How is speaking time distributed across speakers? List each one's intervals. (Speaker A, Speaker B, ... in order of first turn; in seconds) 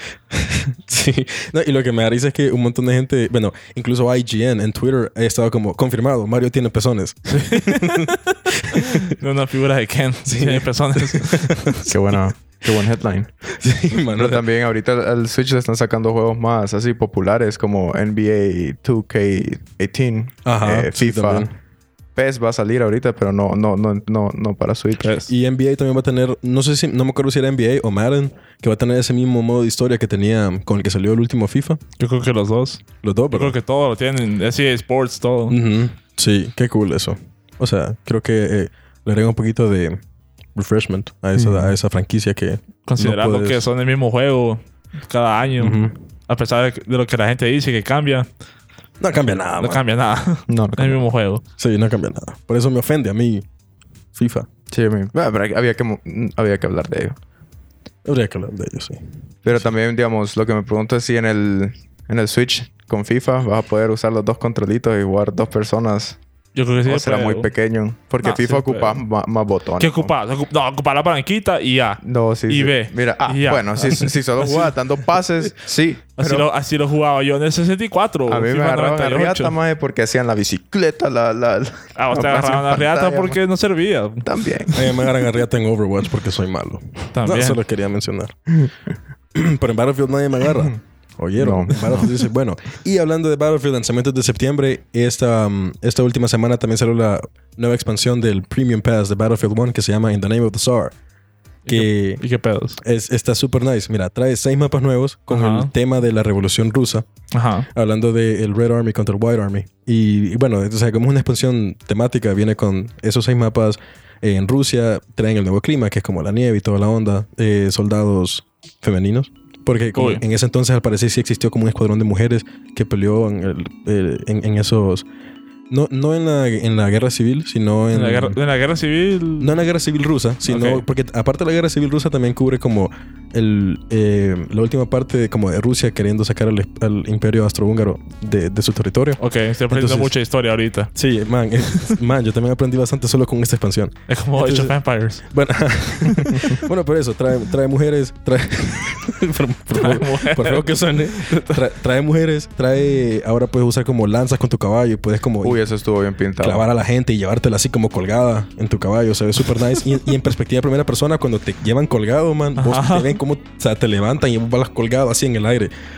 Speaker A: 0.3-9.2, 10.2-12.0, 13.5-14.4, 20.4-21.5, 25.3-31.8, 33.0-33.6, 35.5-40.0, 40.5-43.7, 45.6-46.0, 49.0-49.8, 51.6-53.5, 54.1-54.5, 58.0-59.0, 84.8-88.4, 89.3-100.9, 101.7-102.2, 102.8-107.1, 107.7-125.1, 125.7-128.4, 129.4-140.1, 140.9-155.6, 156.4-165.7
Speaker B: 7.3-11.8, 25.0-25.3, 32.0-35.6, 42.9-48.3, 49.6-51.4, 66.5-67.5, 68.2-69.0, 69.8-74.8, 76.2-79.5, 82.0-84.8, 87.1-87.6, 101.7-102.8, 105.3-105.7, 107.3-107.7, 120.0-120.2, 127.9-129.5, 130.5-130.8, 139.2-140.9, 141.6-141.9, 144.1-145.2, 149.8-151.5, 162.6-163.2
Speaker C: 11.9-13.3, 14.1-21.5, 22.2-25.1, 41.4-41.7, 50.5-51.0, 54.7-57.2, 59.5-66.2, 66.9-70.1, 72.0-76.5, 78.3-83.4, 84.2-84.8, 91.4-92.1, 146.3-146.6, 155.4-156.6